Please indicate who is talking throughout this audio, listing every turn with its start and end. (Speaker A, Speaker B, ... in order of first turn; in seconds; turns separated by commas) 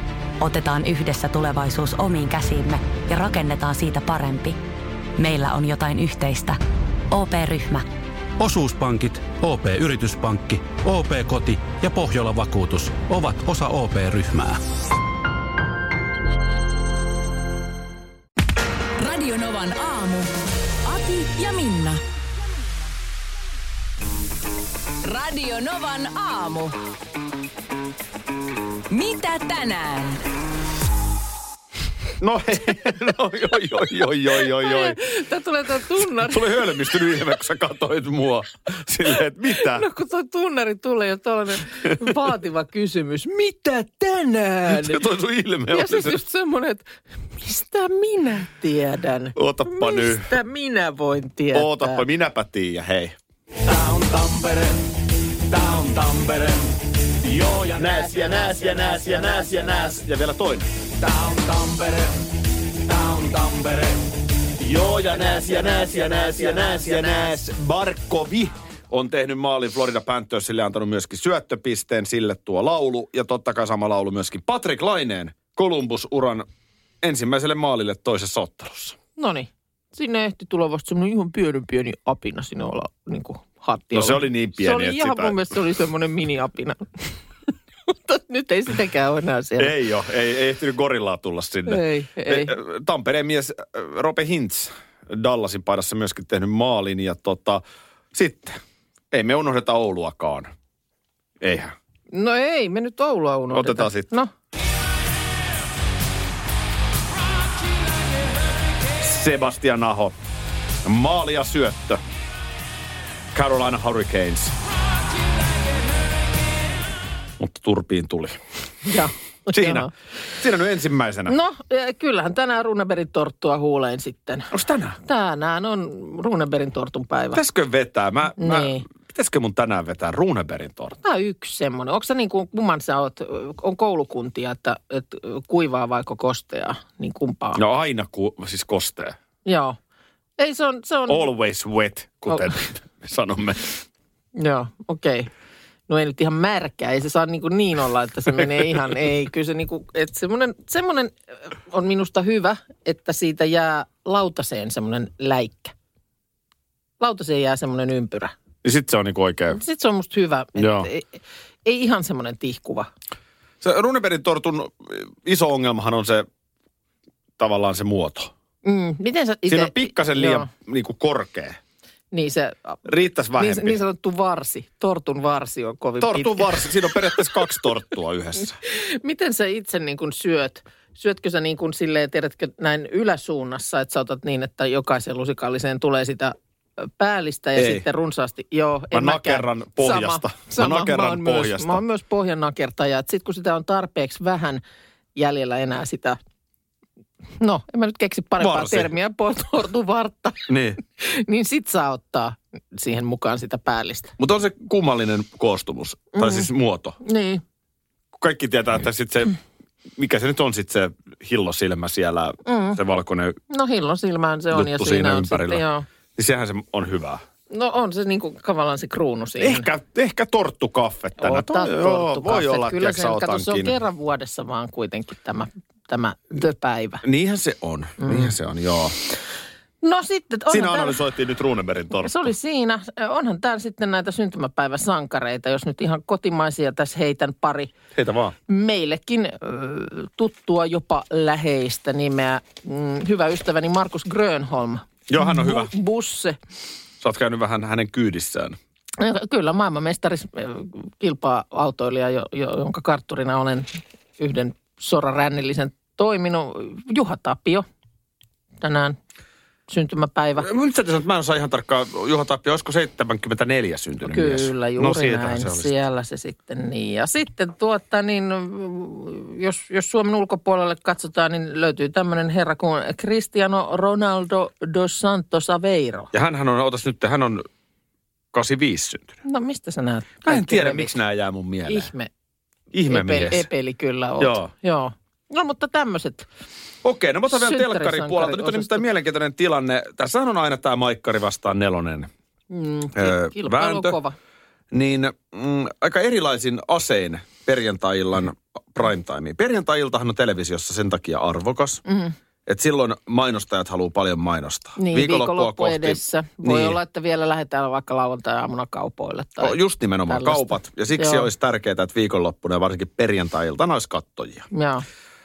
Speaker A: 0.4-4.6, Speaker A: 5.2-6.6, Speaker A: 7.1-7.8, Speaker B: 8.4-14.6, Speaker C: 19.0-20.3, Speaker C: 20.8-22.0, Speaker C: 25.0-26.8, Speaker C: 28.9-30.2, Speaker D: 32.2-35.0, Speaker E: 34.4-36.6, Speaker D: 36.2-39.8, Speaker E: 39.5-45.0, Speaker D: 44.7-46.2, Speaker E: 45.7-52.0, Speaker D: 49.4-50.3, Speaker D: 51.5-54.8, Speaker D: 55.5-62.1, Speaker E: 59.0-59.7, Speaker D: 62.8-64.0, Speaker D: 64.6-76.5, Speaker D: 77.0-79.0, Speaker E: 79.2-87.1, Speaker D: 83.9-85.4, Speaker E: 87.9-89.7, Speaker D: 89.6-97.6, Speaker E: 91.7-92.5, Speaker D: 98.1-98.6, Speaker D: 99.1-100.5, Speaker D: 101.4-101.7, Speaker E: 102.1-104.3, Speaker D: 103.5-104.1, Speaker D: 109.0-110.1, Speaker D: 110.8-112.0, Speaker D: 113.3-114.5, Speaker D: 117.4-118.4, Speaker E: 118.8-119.9, Speaker D: 119.5-121.3, Speaker E: 121.3-124.5, Speaker D: 124.5-125.0, Speaker E: 125.0-127.4, Speaker D: 127.3-131.0, Speaker E: 128.4-128.8, Speaker E: 131.0-137.6, Speaker D: 137.6-139.2, Speaker E: 139.5-139.8, Speaker E: 140.4-141.3, Speaker D: 141.1-143.8, Speaker E: 144.4-145.3, Speaker E: 145.9-155.7, Speaker E: 157.0-158.3, Speaker D: 158.6-159.6, Speaker E: 159.5-162.9, Speaker D: 160.6-160.9, Speaker D: 163.6-166.2, Speaker D: 167.4-168.3, Speaker E: 168.7-170.5, Speaker D: 169.5-171.6, Speaker E: 172.1-172.8, Speaker D: 172.9-173.8, Speaker E: 173.4-177.4, Speaker D: 176.0-178.6, Speaker E: 178.7-194.6, Speaker D: 187.6-187.8, Speaker D: 188.9-191.8, Speaker E: 195.2-196.2, Speaker E: 197.4-200.5, Speaker D: 198.4-198.9, Speaker D: 200.5-200.8, Speaker E: 201.0-204.1, Speaker D: 204.2-207.0, Speaker E: 206.2-206.5, Speaker E: 207.0-207.4, Speaker D: 208.2-209.4, Speaker D: 210.0-213.4, Speaker E: 212.5-212.8, Speaker E: 213.5-215.9, Speaker D: 214.5-215.6, Speaker D: 216.2-217.2, Speaker E: 217.5-219.7, Speaker D: 219.4-223.8, Speaker E: 221.2-227.0, Speaker D: 227.0-229.0, Speaker E: 228.0-228.3, Speaker E: 229.8-231.0, Speaker D: 230.5-232.3, Speaker E: 232.0-237.7, Speaker D: 237.9-238.4, Speaker E: 238.5-246.4, Speaker D: 245.1-245.7, Speaker D: 247.0-248.6, Speaker E: 249.0-257.6, Speaker E: 258.6-259.0, Speaker E: 259.7-260.5, Speaker D: 260.4-265.7, Speaker E: 264.0-276.1, Speaker D: 276.1-277.5, Speaker D: 278.3-279.2, Speaker E: 279.2-280.9, Speaker D: 280.2-281.9, Speaker E: 281.7-282.1, Speaker D: 282.7-283.5, Speaker E: 282.9-286.2, Speaker D: 284.2-284.5, Speaker D: 286.8-292.1, Speaker E: 287.3-288.9, Speaker E: 292.5-294.2, Speaker D: 292.9-294.0, Speaker D: 294.7-301.8, Speaker E: 301.9-302.1, Speaker D: 302.4-306.8, Speaker E: 304.8-309.6, Speaker D: 309.4-314.5, Speaker E: 310.1-311.3, Speaker E: 314.5-314.9